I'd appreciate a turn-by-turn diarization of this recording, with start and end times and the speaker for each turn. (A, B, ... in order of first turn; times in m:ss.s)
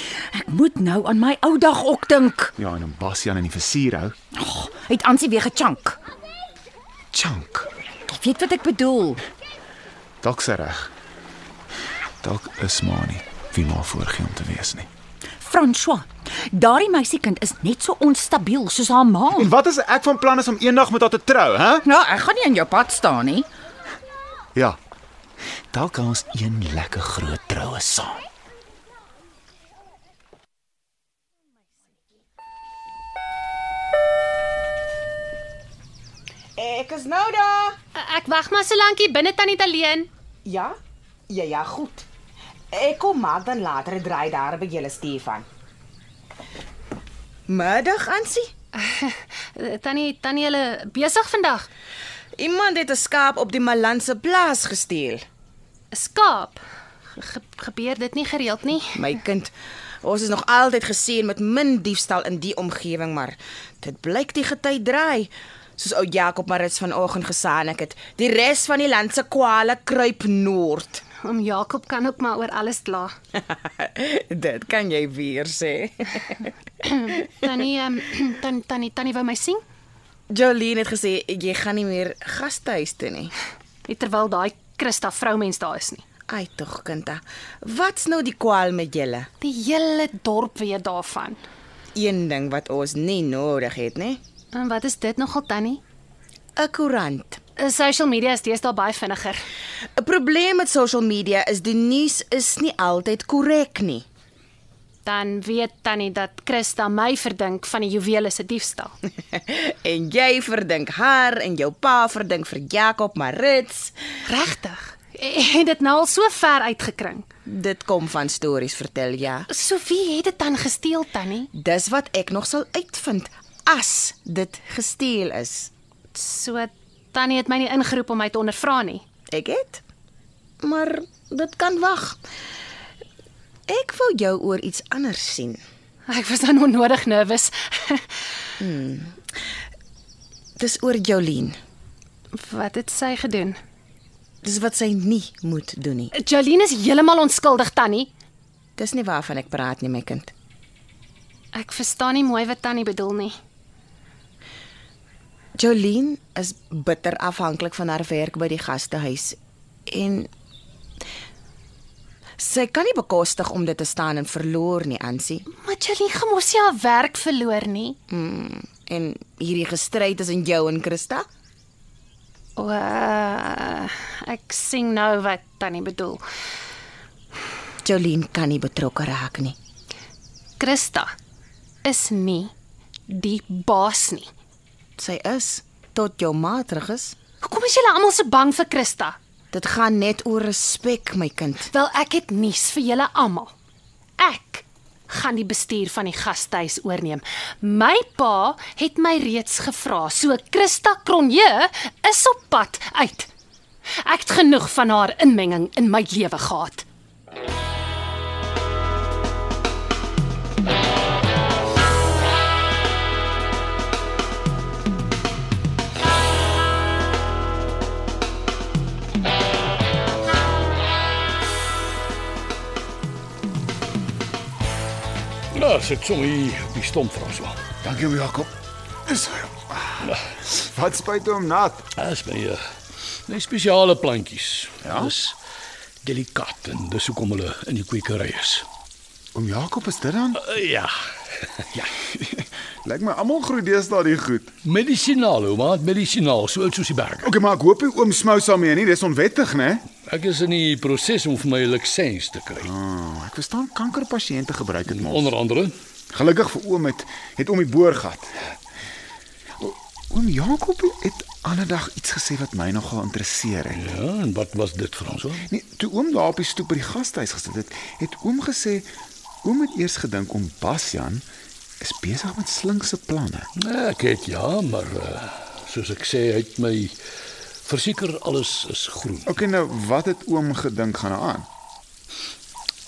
0:00.3-0:02.5 A
0:02.6-0:04.1 B
0:04.3-0:06.0 A
0:07.1-0:07.7 B
0:08.1-0:09.2 A
0:10.2-0:10.9 B
0:12.2-0:14.9 B
0:15.4-0:19.5 A
0:19.3-0:21.8 B
0:21.8-0:23.5 A
0:25.7-0:28.2 B
0:36.6-0:37.8 C
0:37.9-0:40.1 D
0:40.4-0:40.7 C
0:41.3-0:42.0 C
0:42.7-0:45.4 C
0:47.5-0:48.5 C
0:48.7-0:51.7 D
0:52.4-0:55.2 C
0:55.9-0:56.6 D
0:57.1-0:59.0 D
0:58.9-0:59.5 C
1:00.0-1:11.0 C
1:11.2-1:13.1 D
1:13.4-1:16.5 C
1:16.8-1:19.6 D
1:20.3-1:23.3 C
1:23.8-1:26.0 D
1:26.3-1:29.3 C
1:29.4-1:31.4 D
1:31.9-1:34.2 C
1:34.5-1:35.8 D
1:36.6-1:37.4 C
1:37.6-1:39.4 D
1:40.0-1:44.0 C
1:45.0-1:48.9 D
1:49.3-1:53.9 C
1:54.2-1:57.2 D
1:57.4-1:59.5 C
1:59.5-2:01.5 D
2:01.5-2:05.7 C
2:06.1-2:09.0 D
2:09.3-2:09.8 C
2:10.6-2:12.2 C
2:13.7-2:15.6 C
2:16.1-2:18.1 D
2:18.6-2:19.2 C
2:20.6-2:21.6 C
2:22.3-2:23.6 D
2:24.4-2:26.1 C
2:26.1-2:28.1 D
2:28.8-2:30.3 C
2:31.5-2:33.4 D
2:35.6-2:39.4 C
2:39.9-2:40.3 C
2:42.4-2:45.4 C
2:45.5-2:48.0 D
2:48.1-2:51.2 C
2:52.6-2:56.2 D
2:57.8-2:59.6 C
3:00.6-3:01.1 D
3:01.8-3:02.5 D
3:03.1-3:04.3 D
3:05.0-3:07.2 C
3:07.4-3:09.2 D
3:09.5-3:11.7 C
3:11.7-3:13.5 D
3:14.2-3:23.3 D
3:24.0-3:26.8 D
3:45.5-3:47.6 E
3:47.8-3:48.5 B
3:49.1-3:51.8 B
3:52.0-3:52.6 E
3:53.3-3:55.3 E
3:54.8-3:55.1 B
3:56.0-3:58.6 E
3:59.3-4:00.4 B
4:00.4-4:00.9 E
4:01.6-4:01.9 E
4:02.1-4:04.6 B
4:04.6-4:07.3 E
4:07.2-4:09.8 B
4:10.1-4:12.7 E
4:12.6-4:15.3 B
4:14.9-4:15.7 E
4:16.1-4:18.5 B
4:19.6-4:23.9 B
4:23.7-4:25.4 E
4:25.5-4:28.9 B
4:29.4-4:31.2 B
4:31.8-4:33.5 B
4:33.6-4:36.9 E
4:37.6-4:39.3 E
4:39.2-4:41.5 B